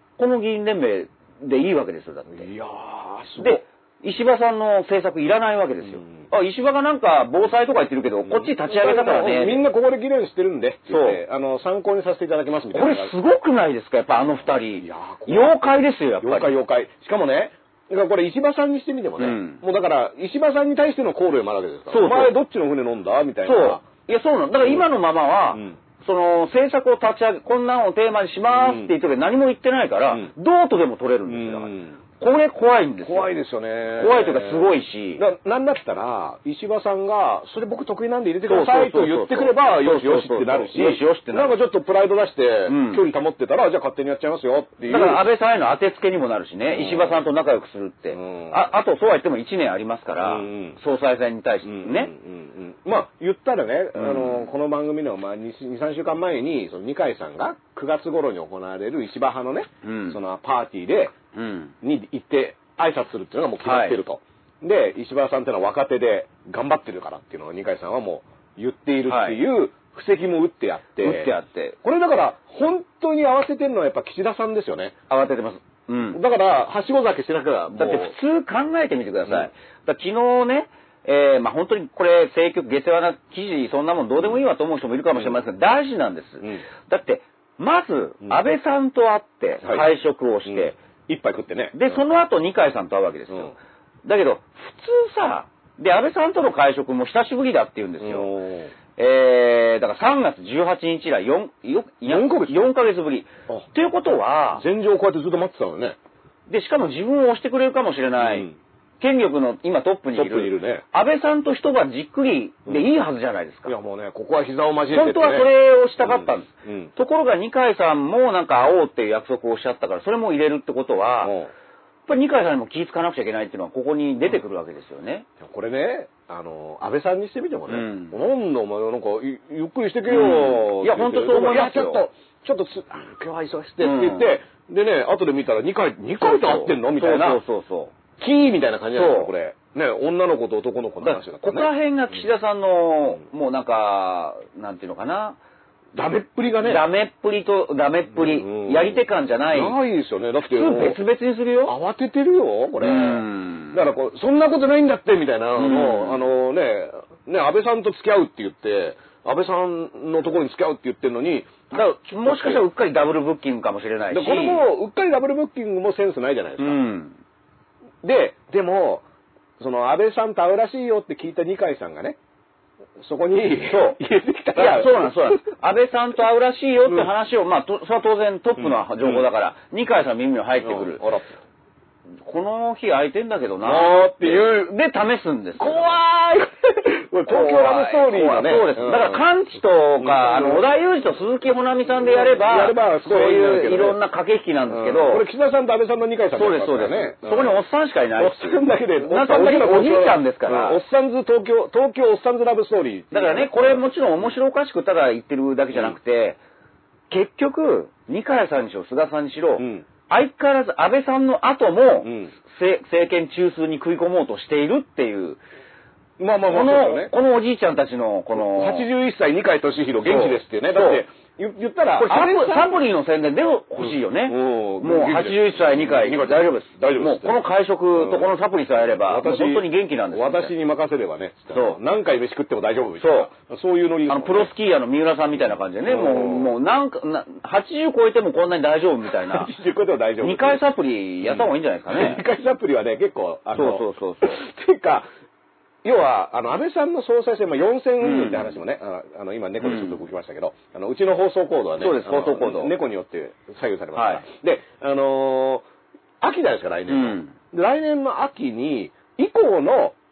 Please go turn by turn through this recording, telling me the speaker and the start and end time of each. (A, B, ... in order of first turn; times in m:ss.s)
0:00.2-0:02.5 A
0:02.4-0:03.6 B
0:03.4-0:09.6 A
0:08.3-0:13.1 B
0:10.9-0:11.2 A
0:12.7-0:16.5 A
0:14.8-0:15.6 B
0:16.2-0:23.8 B
0:19.2-0:19.6 A
0:21.9-0:22.3 A
0:23.4-0:33.3 A
0:28.5-0:28.9 B
0:31.3-0:32.0 B
0:33.0-0:45.2 B
0:34.0-0:35.2 A
0:38.5-0:41.6 A
0:42.7-0:43.0 A
0:44.9-0:52.1 A
0:46.7-0:47.2 B
0:48.1-0:48.6 B
0:50.2-0:50.8 B
0:51.6-1:01.2 B
0:54.0-0:54.5 A
0:59.8-1:00.2 A
1:01.3-1:01.7 A
1:01.8-1:11.3 B
1:03.6-1:04.0 A
1:09.1-1:09.4 A
1:11.0-1:11.8 A
1:11.8-1:14.9 B
1:15.1-1:16.2 A
1:16.1-1:18.2 B
1:17.8-1:30.8 A
1:29.6-1:29.9 B
1:30.5-1:32.0 B
1:31.7-1:33.5 A
1:34.1-1:38.3 A
1:38.0-1:38.7 B
1:39.0-1:44.6 A
1:42.1-1:42.7 B
1:44.6-1:46.0 B
1:46.5-1:48.5 A
1:48.2-1:48.6 B
1:49.0-1:53.8 A
1:50.1-1:50.8 B
1:53.7-1:55.5 B
1:54.9-2:01.4 A
1:56.0-1:56.9 B
2:01.2-2:01.5 B
2:02.1-2:05.3 A
2:05.4-2:17.4 B
2:07.7-2:08.2 A
2:10.1-2:12.0 A
2:13.8-2:14.3 A
2:16.2-2:17.9 A
2:18.2-2:21.7 B
2:18.9-2:19.3 A
2:21.0-2:25.4 A
2:26.0-2:26.9 B
2:26.6-2:29.8 A
2:28.1-2:31.0 B
2:30.4-2:31.7 A
2:31.7-2:42.6 B
2:32.8-2:33.8 A
2:35.6-2:36.2 A
2:41.7-2:44.7 A
2:44.1-2:46.8 B
2:46.6-2:47.2 A
2:48.0-2:49.0 B
2:49.6-2:52.2 B
2:53.0-2:55.4 B
2:53.7-2:54.0 A
2:54.6-3:01.0 A
2:58.6-2:59.3 B
3:00.6-3:01.3 B
3:02.2-3:06.0 A
3:03.6-3:04.7 B
3:05.6-3:09.2 B
3:07.3-3:15.2 A
3:10.0-3:10.7 B
3:11.9-3:14.0 B
3:14.7-3:17.6 B
3:16.3-3:20.8 A
3:18.2-3:23.8 B
3:23.1-3:26.4 A
3:27.1-3:35.4 A
3:29.6-3:29.8 B
3:32.0-3:32.3 B
3:36.2-3:37.1 B
3:36.5-3:38.9 A
3:38.4-3:42.8 B
3:40.0-3:41.0 A
3:42.0-3:50.5 A
3:43.8-3:47.4 B
3:47.9-3:48.3 B
3:48.9-3:54.5 B
3:51.5-3:51.8 A
3:53.0-3:53.3 A
3:54.1-3:59.5 A
3:55.9-3:56.6 B
3:59.2-4:00.6 B
4:00.2-4:02.2 A
4:01.2-4:05.1 B
4:03.6-4:04.4 A
4:05.8-4:15.6 B
4:08.0-4:08.5 A
4:09.6-4:10.0 A
4:11.8-4:12.7 A
4:14.0-4:14.2 A
4:16.2-4:20.0 B
4:16.9-4:17.4 A